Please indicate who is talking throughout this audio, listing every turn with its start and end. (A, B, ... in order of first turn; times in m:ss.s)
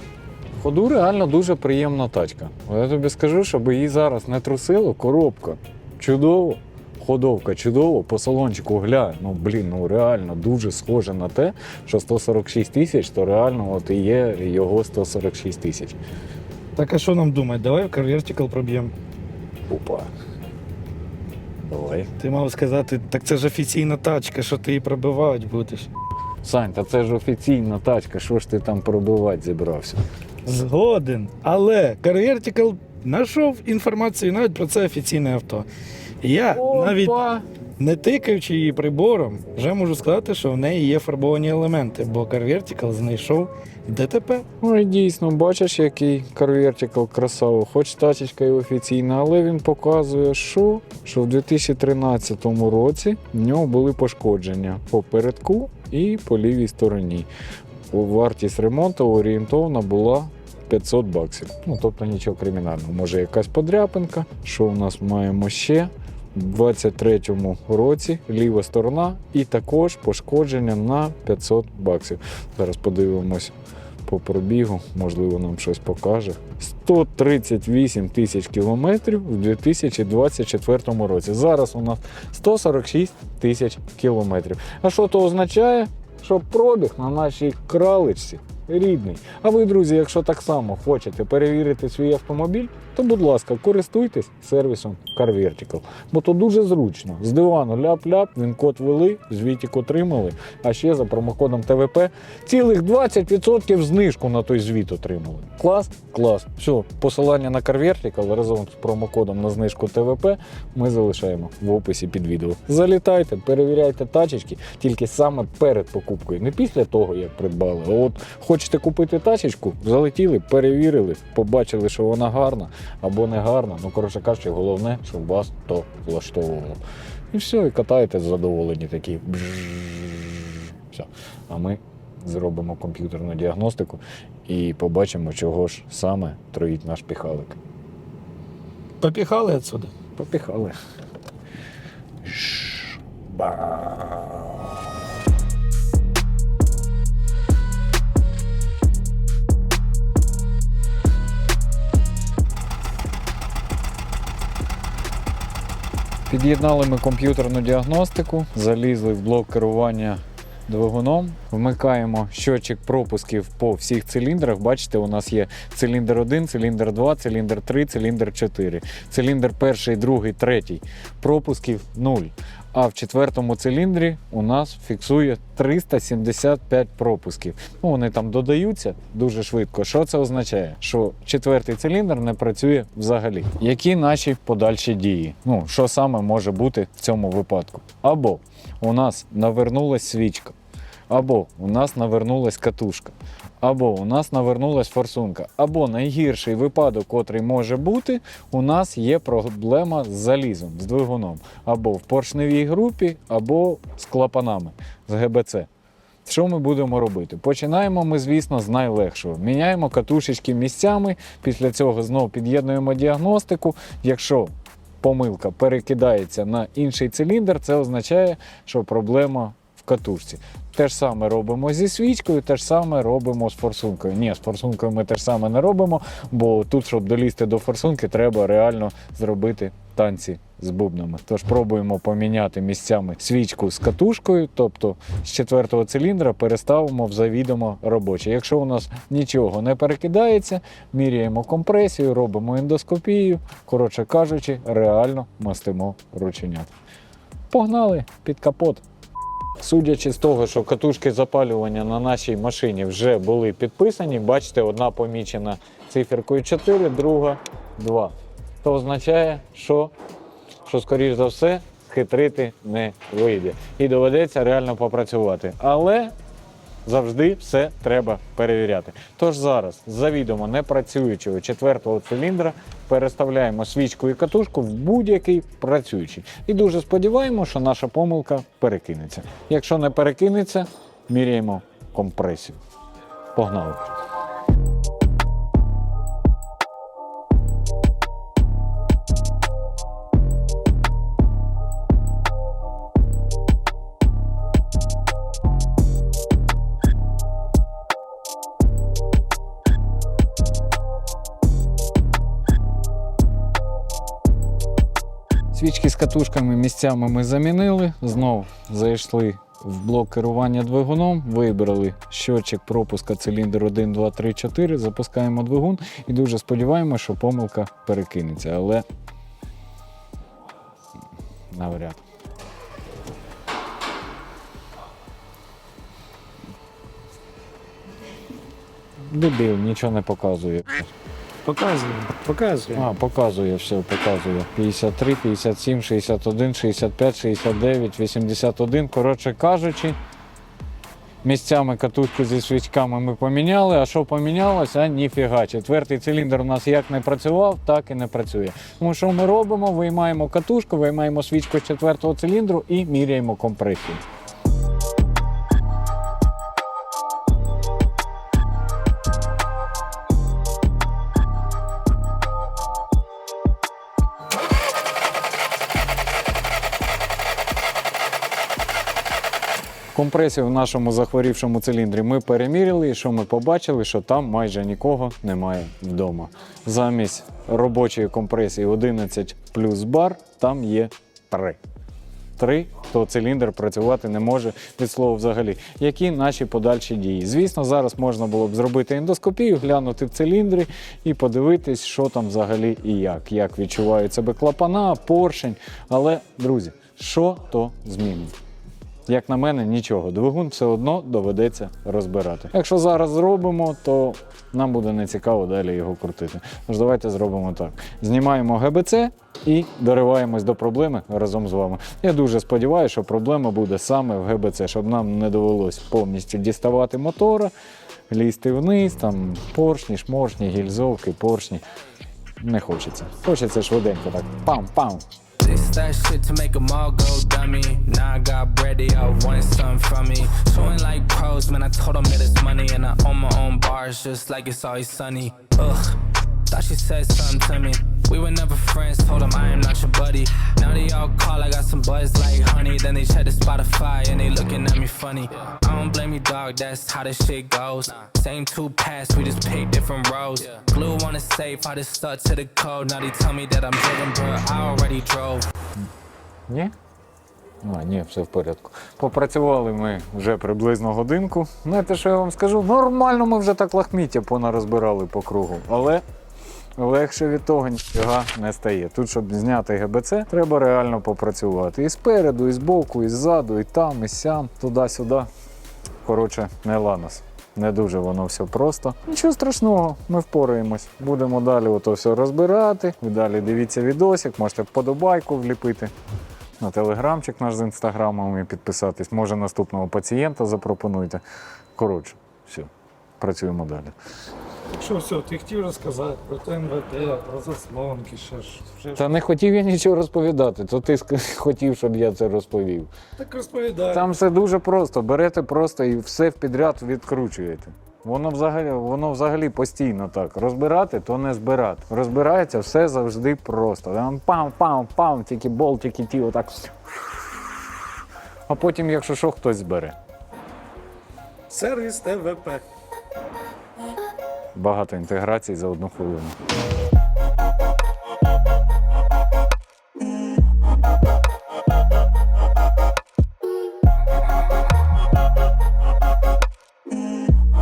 0:00.6-0:16.0 A
0:16.8-0:18.9 B
0:19.7-0:20.1 A
0:21.6-0:22.1 A
0:22.2-0:25.9 B
0:26.4-0:30.0 A
0:30.4-0:35.7 B
0:36.2-0:37.2 B
0:36.5-0:37.4 A
0:37.8-0:44.4 B
0:44.6-0:57.3 A
0:57.9-1:13.5 A
1:14.0-2:17.6 A
2:19.0-2:19.9 B
2:20.2-2:20.8 A
2:22.2-2:24.6 A
2:36.3-3:10.6 A
3:11.1-3:25.7 A
3:26.2-4:06.7 A
4:07.5-4:08.8 A
4:09.6-4:19.9 A
4:20.6-4:26.1 A
4:26.8-4:42.6 A
4:43.3-4:43.9 A
5:05.5-5:18.8 A
5:21.5-5:22.0 A
5:29.0-5:30.9 A
5:31.4-5:32.9 B
5:32.7-5:40.0 A
5:41.2-5:54.0 A
6:09.9-6:21.6 A
6:22.4-6:38.3 A
6:39.1-6:57.5 A
6:58.1-7:01.6 A
7:02.4-7:05.0 A
7:05.4-7:35.5 C
7:36.5-7:36.7 A
7:37.6-7:46.0 A
7:46.8-7:55.3 A
7:56.0-8:05.9 A
8:06.6-8:11.2 A
8:11.8-8:13.9 A
8:14.7-8:19.1 B
8:18.9-8:22.9 A
8:23.2-8:24.1 B
8:23.9-8:36.7 A
8:38.5-8:40.0 A
8:41.5-8:42.6 B
8:44.6-8:46.4 A